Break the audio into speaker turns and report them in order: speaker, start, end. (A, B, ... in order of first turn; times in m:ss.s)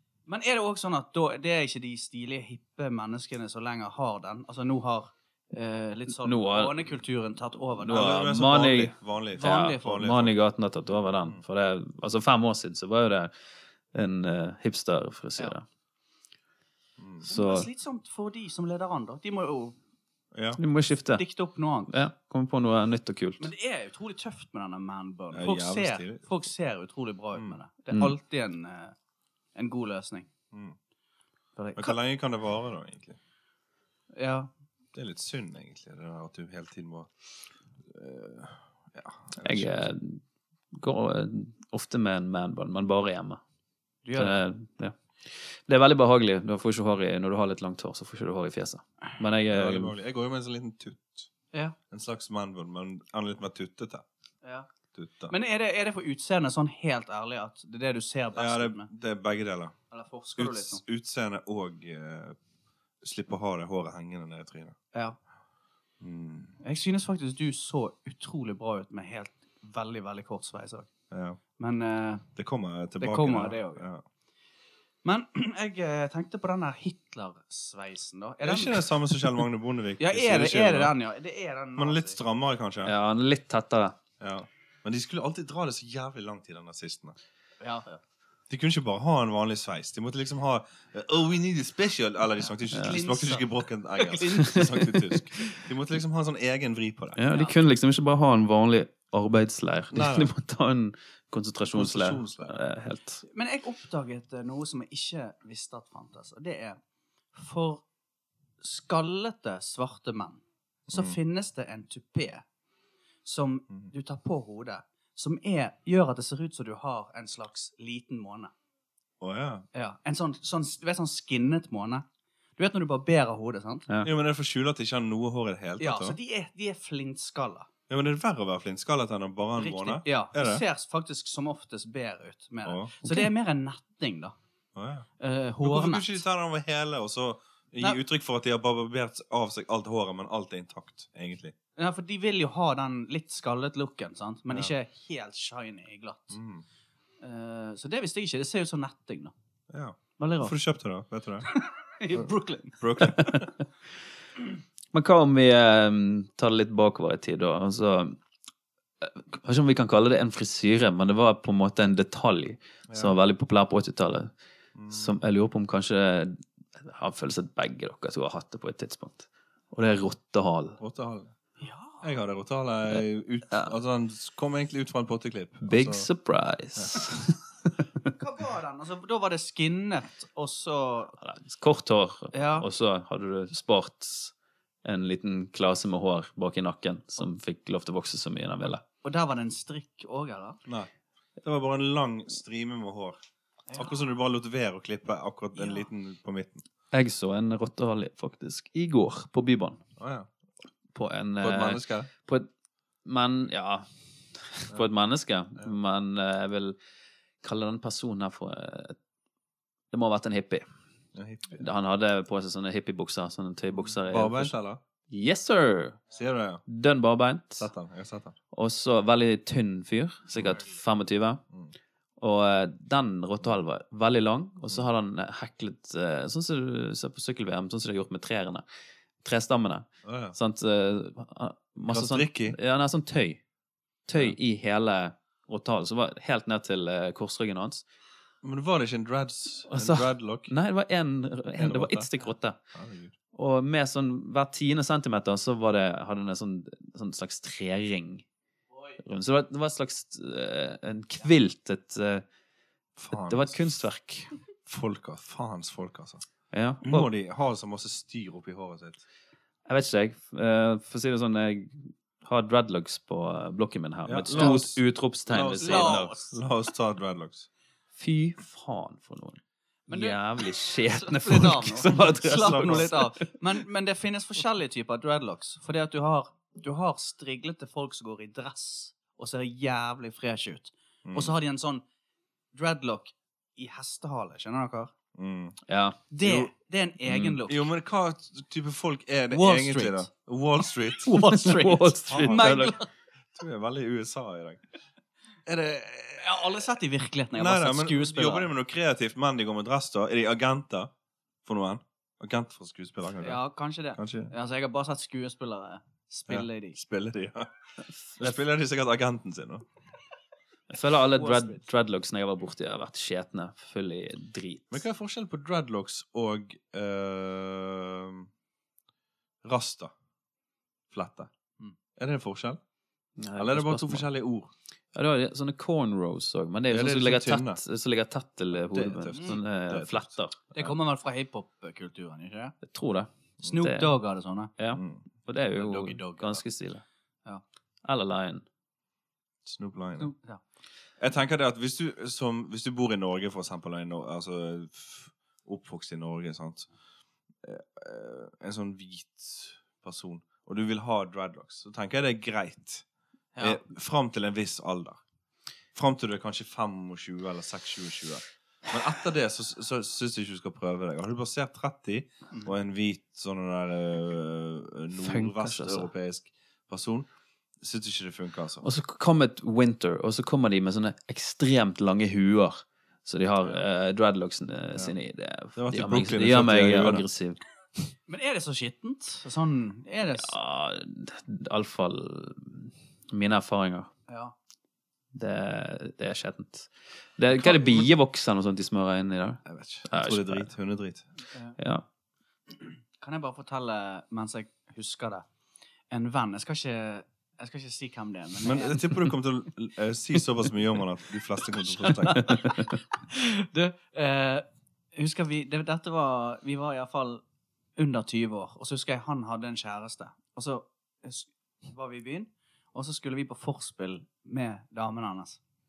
0:00.3-0:08.1 A
0:06.2-0:06.8 B
0:07.8-0:13.3 B
0:07.9-0:10.4 C
0:09.3-0:10.1 A
0:11.0-0:11.4 C
0:13.9-0:15.6 B
0:17.0-0:17.3 C
0:17.2-0:19.8 A
0:17.3-0:17.7 B
0:20.3-0:20.6 C
0:20.6-0:21.2 B
0:21.1-0:22.0 A
0:21.9-0:23.5 B
0:23.4-0:28.9 A
0:25.3-0:26.3 C
0:29.5-0:30.3 A
0:30.5-0:30.8 C
0:31.6-0:32.0 A
0:31.8-0:33.2 C
0:34.1-0:34.5 A
0:34.9-0:37.1 C
0:37.8-0:39.9 C
0:39.4-0:40.2 B
0:40.7-0:43.4 B
0:44.0-0:44.4 A
0:44.2-0:49.9 B
0:49.5-0:51.3 C
0:51.9-0:54.0 C
0:54.9-0:55.3 C
0:55.3-0:58.9 A
0:58.3-0:59.7 C
0:59.9-1:00.8 A
1:00.4-1:02.4 C
1:03.0-1:04.8 C
1:06.0-1:06.6 C
1:06.6-1:10.9 A
1:11.1-1:11.4 C
1:11.6-1:12.3 A
1:12.4-1:14.0 C
1:13.0-1:13.9 A
1:15.0-1:19.3 A
1:18.4-1:20.9 C
1:20.0-1:22.2 A
1:21.8-1:22.9 C
1:22.8-1:23.9 B
1:24.2-1:27.2 C
1:27.6-1:28.0 A
1:28.5-1:37.2 C
1:32.7-1:34.7 A
1:34.4-1:35.4 B
1:37.2-1:43.2 B
1:37.3-1:37.6 A
1:39.9-1:40.3 C
1:41.7-1:42.6 C
1:43.2-1:46.8 A
1:47.3-1:47.8 A
1:48.6-1:52.4 A
1:50.9-1:51.2 C
1:53.2-1:58.5 A
1:59.2-1:59.6 C
1:59.7-2:02.0 A
2:02.6-2:03.9 A
2:04.0-2:06.2 C
2:05.8-2:07.7 A
2:07.9-2:10.6 C
2:09.6-2:14.3 A
2:12.6-2:13.2 C
2:14.7-2:15.1 C
2:15.2-2:16.2 A
2:15.6-2:21.5 C
2:21.8-2:26.4 A
2:26.3-2:26.6 C
2:27.2-2:29.3 A
2:29.7-2:31.5 C
2:30.2-2:30.5 A
2:31.5-2:33.1 A
2:32.8-2:33.5 C
2:33.1-2:33.4 B
2:34.9-2:38.2 B
2:39.0-2:44.3 B
2:42.9-2:43.1 C
2:44.7-2:45.1 C
2:44.9-2:50.8 B
2:50.8-2:51.3 C
2:51.6-2:52.1 A
2:52.0-2:56.1 C
2:53.0-2:53.7 B
2:55.6-2:57.7 B
2:56.8-2:57.0 C
2:58.2-3:01.1 A
3:01.2-3:04.3 B
3:02.3-3:02.7 A
3:04.8-3:08.8 B
3:09.0-3:10.6 A
3:11.4-3:13.2 C
3:13.7-3:13.9 A
3:13.7-3:16.6 C
3:15.6-3:15.9 A
3:16.9-3:19.8 B
3:20.0-3:20.3 C
3:20.9-3:22.5 B
3:21.4-3:22.1 C
3:23.0-3:23.8 B
3:24.4-3:26.8 B
3:27.4-3:29.0 B
3:29.9-3:30.6 B
3:31.1-3:31.6 C
3:31.5-3:34.5 B
3:33.7-3:34.8 C
3:35.1-3:36.0 B
3:36.1-3:36.6 C
3:36.6-3:37.7 B
3:37.6-3:38.4 C
3:38.5-3:41.4 B
3:40.3-3:40.6 C
3:42.2-3:48.6 B
3:49.2-3:53.4 B
3:50.0-3:50.3 C
3:51.9-3:52.6 C
3:54.1-3:57.8 B
3:58.4-4:00.5 C
3:59.7-4:02.6 B
4:01.6-4:02.1 C
4:02.7-4:03.1 C
4:03.3-4:08.2 B
4:09.0-4:12.2 B
4:13.0-4:13.6 C
4:13.2-4:14.3 B
4:14.6-4:16.2 C
4:16.5-4:17.1 B
4:16.8-4:19.0 C
4:19.6-4:26.2 B
4:24.0-4:27.5 C
4:25.6-4:26.3 A
4:28.0-4:33.1 B
4:29.9-4:41.8 A
4:32.2-4:32.9 C
4:41.0-4:41.3 C
4:42.5-4:44.9 A
4:45.1-4:45.6 C
4:45.7-4:46.1 B
4:46.1-4:47.7 A
4:46.2-4:46.5 C
4:47.1-4:47.4 B
4:47.5-4:51.2 C
4:49.3-4:50.1 A
4:51.0-4:52.9 A
4:51.1-4:52.8 B
4:52.1-4:52.6 C
4:53.3-4:54.6 C
4:55.4-4:56.5 C
4:56.2-4:58.5 A
4:57.3-5:00.9 C
5:01.4-5:03.4 C
5:03.2-5:06.8 A
5:03.9-5:04.3 C
5:06.3-5:07.5 C
5:08.2-5:09.6 C
5:10.7-5:14.8 B
5:11.1-5:11.6 A
5:14.7-5:18.3 C
5:19.4-5:19.9 C
5:20.9-5:21.3 C
5:22.0-5:22.6 C
5:23.2-5:24.0 B
5:23.4-5:24.5 C
5:24.9-5:30.4 B
5:26.7-5:27.6 C
5:28.6-5:30.7 C
5:29.1-5:29.4 A
5:30.5-5:32.6 A
5:32.6-5:33.9 B
5:33.4-5:34.5 A
5:34.6-5:36.8 B
5:34.7-5:35.0 C
5:35.6-5:36.4 A
5:37.8-5:38.4 B
5:39.4-5:40.1 C
5:40.0-5:40.4 A
5:41.0-5:46.7 C
5:47.4-5:52.8 C
5:53.3-5:53.6 A
5:53.4-5:55.0 C
5:55.7-6:07.1 C
6:05.0-6:05.9 B
6:07.6-6:08.6 C
6:08.6-6:17.4 B
6:15.6-6:17.0 C
6:18.1-6:20.3 A
6:20.2-6:23.9 B
6:24.1-6:24.3 A
6:25.1-6:30.5 B
6:27.3-6:27.9 C
6:29.4-6:31.0 C
6:31.3-6:31.6 A
6:31.6-6:31.8 B
6:32.6-6:35.2 A
6:35.9-6:38.8 A
6:38.4-6:42.4 C
6:41.6-6:47.2 A
6:47.8-6:55.4 A